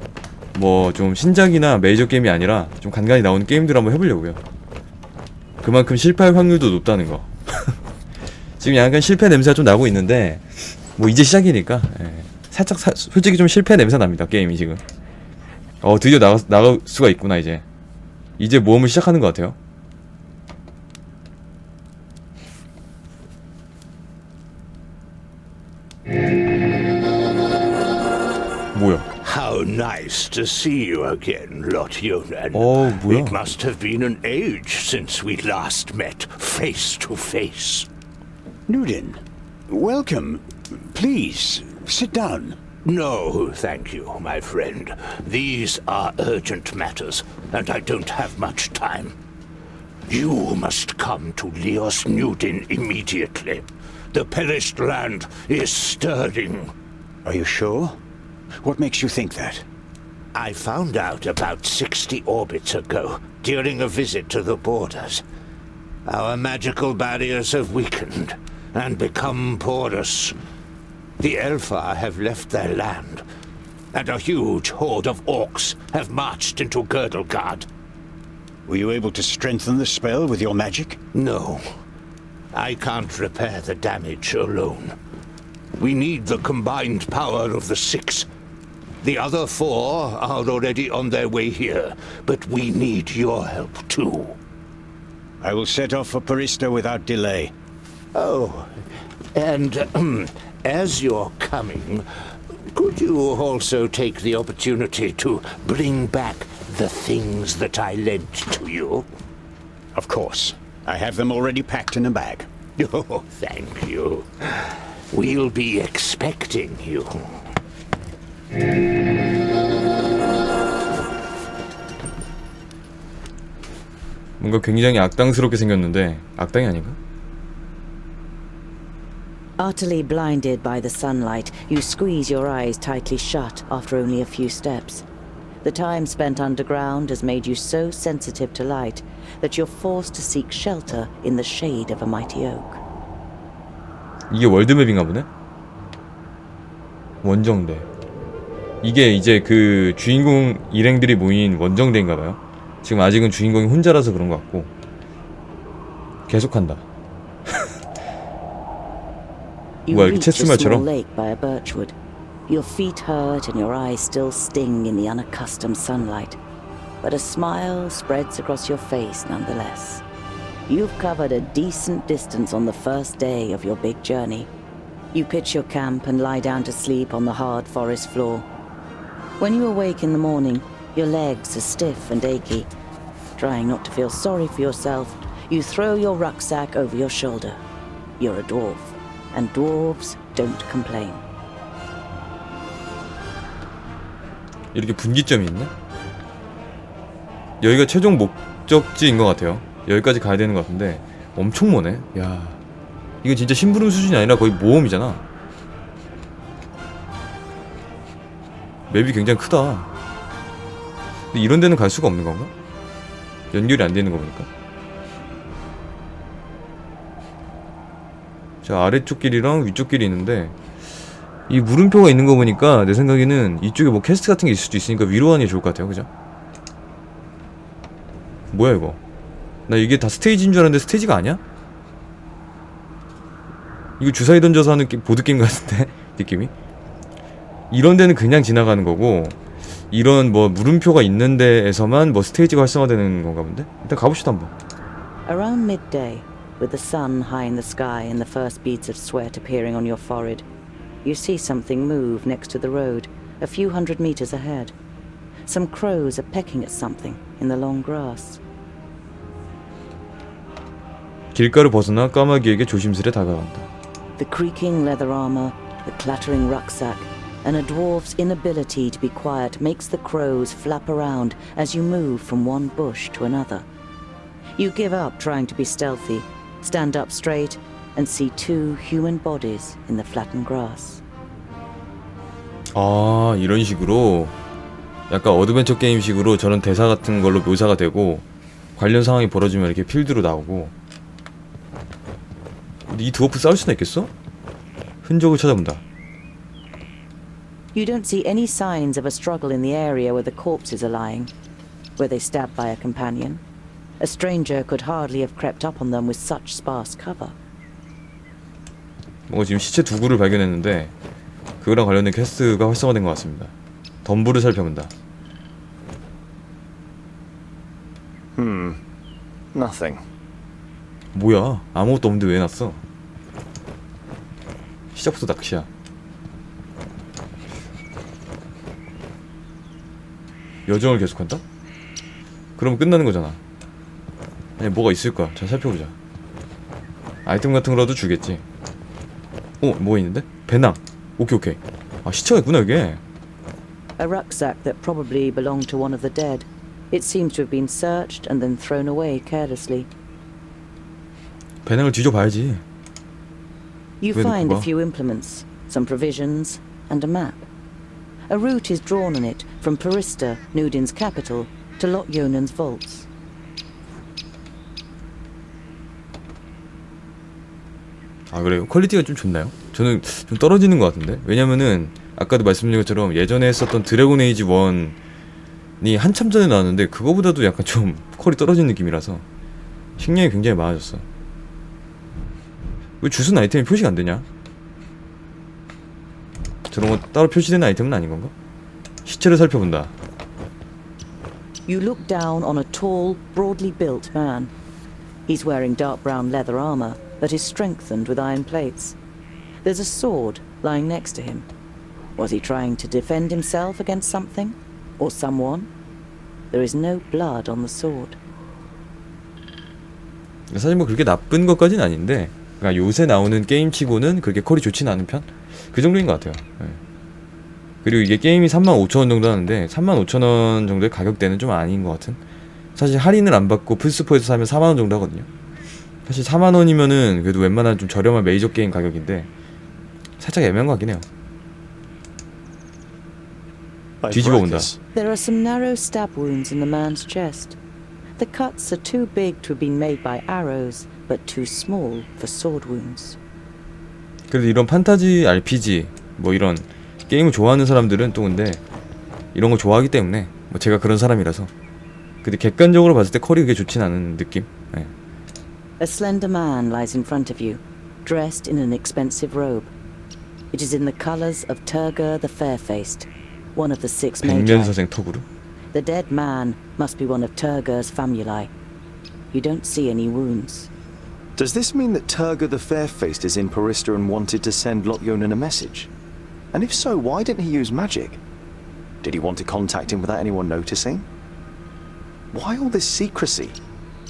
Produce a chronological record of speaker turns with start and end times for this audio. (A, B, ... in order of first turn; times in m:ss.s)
0:00.5-0:04.4 A
0:05.6-0:07.7 A
0:08.6-0:14.8 A
0:15.8-0:17.6 A
0:18.4-0:19.6 A
0:28.7-0:29.1 A
0:29.2-0:37.9 B
0:32.5-0:33.4 A
0:38.7-0:42.6 C
0:42.8-0:49.1 B
0:50.1-0:56.7 B
0:57.2-0:58.0 C
0:58.6-0:59.6 C
1:00.3-1:05.2 B
1:06.0-1:10.4 B
1:11.2-1:13.2 B
1:13.9-1:17.7 B
1:18.7-1:21.0 C
1:21.1-1:21.6 B
1:22.5-1:24.9 B
1:25.8-1:28.3 B
1:29.0-1:34.4 B
1:35.4-1:37.5 C
1:38.1-1:38.8 B
1:39.3-1:42.0 B
1:42.7-1:49.1 B
1:49.9-1:52.5 C
1:52.8-1:57.2 B
2:04.4-2:07.0 A
2:09.6-2:15.0 D
2:15.6-2:22.8 D
2:24.3-2:25.3 A
2:27.2-2:27.9 A
2:28.8-2:34.7 A
2:36.3-2:36.8 A
2:39.8-2:41.9 D
2:39.9-2:40.9 A
2:42.5-2:46.4 D
2:47.0-2:50.0 D
2:50.7-2:54.5 D
2:55.1-2:58.5 D
2:59.4-3:02.7 D
3:03.4-3:07.6 D
3:08.2-3:11.2 D
3:14.7-3:15.7 A
3:17.6-3:22.6 A
3:23.2-3:25.2 A
3:28.9-3:29.9 A
3:31.3-3:32.5 A
3:33.5-3:34.5 A
3:38.6-3:40.6 A
3:41.5-3:46.1 A
3:48.5-3:49.0 A
3:49.7-3:51.4 A
3:54.0-3:56.5 A
3:57.7-3:59.4 A
3:59.9-4:04.5 A
4:05.2-4:10.4 D
4:11.0-4:14.7 D
4:15.5-4:18.4 D
4:21.3-4:23.7 A
4:24.2-4:33.6 D
4:34.6-4:41.0 D
4:42.7-4:44.3 A
4:45.1-4:48.2 A
4:48.8-4:50.7 A
4:52.9-4:54.1 A
4:55.0-4:55.8 A
4:57.7-5:01.3 D
5:02.0-5:03.4 D
5:04.0-5:07.4 D
5:09.3-5:10.9 A
5:11.6-5:13.5 A
5:14.0-5:14.9 A
5:18.4-5:18.8 E
5:19.5-5:20.0 E
5:21.1-5:22.8 A
5:24.9-5:25.7 A
5:30.7-5:31.4 A
5:32.6-5:33.4 A
5:34.6-5:35.9 A
5:37.2-5:38.4 A
5:39.6-5:43.0 A
5:44.0-5:49.9 D
5:51.6-5:52.6 A
5:54.0-5:57.5 D
5:54.1-5:54.7 A
5:58.3-6:03.1 D
6:08.3-6:15.0 A
6:15.8-6:19.2 A
6:20.0-6:21.0 A
6:23.0-6:24.2 A
6:26.7-6:28.3 A
6:29.0-6:29.9 A
6:31.7-6:34.5 D
6:35.3-6:39.0 D
6:39.6-6:41.5 D
6:42.2-6:45.7 D
6:46.5-6:48.2 D
6:50.5-6:56.8 A
6:57.8-7:02.2 A
7:02.8-7:05.3 A
7:06.0-7:09.3 A
7:10.2-7:11.0 A
7:14.0-7:14.8 E
7:14.1-7:14.7 A
7:14.9-7:17.6 D
7:18.2-7:23.2 D
7:24.3-7:28.6 A
7:29.3-7:31.5 A
7:32.2-7:34.9 A
7:35.8-7:39.7 D
7:40.5-7:44.7 D
7:44.2-7:45.2 A
7:45.7-7:48.5 D
7:49.3-7:50.7 D
7:51.4-7:55.9 E
7:56.5-7:58.2 E
7:59.0-8:01.0 E
8:02.3-8:03.6 E